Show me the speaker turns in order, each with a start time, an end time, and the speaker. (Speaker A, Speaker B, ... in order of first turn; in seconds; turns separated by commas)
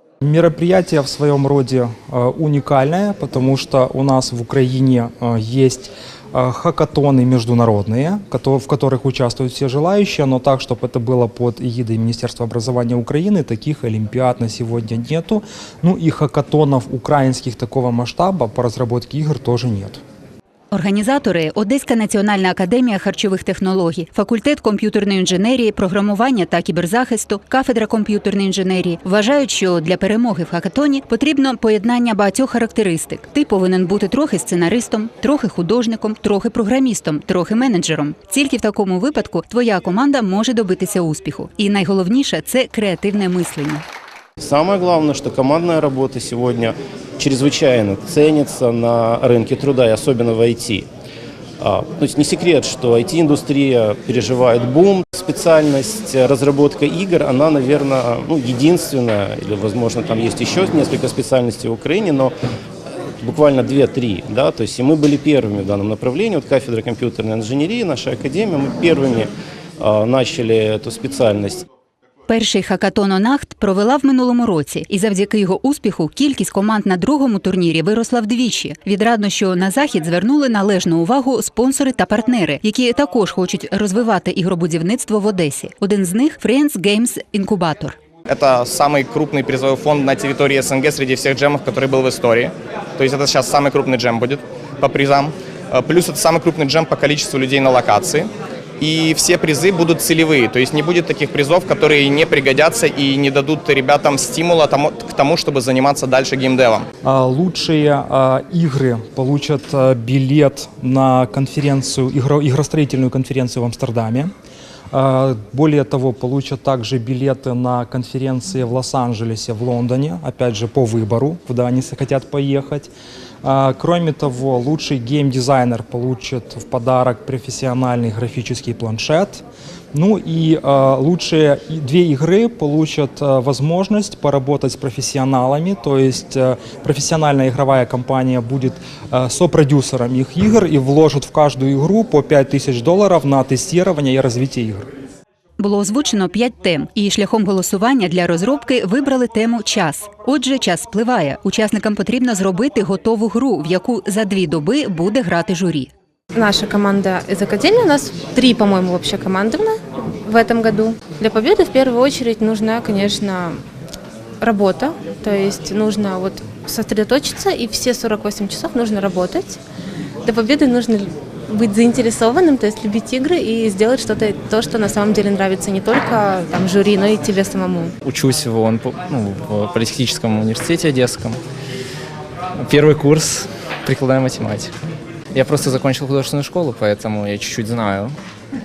Speaker A: 0.2-20.0, Speaker B: 20.7-43.8, Speaker C: 44.4-50.9, Speaker C: 51.6-62.4, Speaker C: 63.2-71.6, Speaker B: 72.3-88.0, Speaker D: 88.3-98.3, Speaker D: 98.8-106.9, Speaker A: 107.0-114.3, Speaker A: 114.9-122.9, Speaker A: 123.4-144.9, Speaker B: 145.6-155.9, Speaker E: 156.4-159.7, Speaker E: 160.3-163.5, Speaker E: 164.5-169.5, Speaker E: 170.3-171.0, Speaker E: 171.5-177.9, Speaker F: 178.0-181.4, Speaker F: 182.6-184.7, Speaker F: 185.3-188.2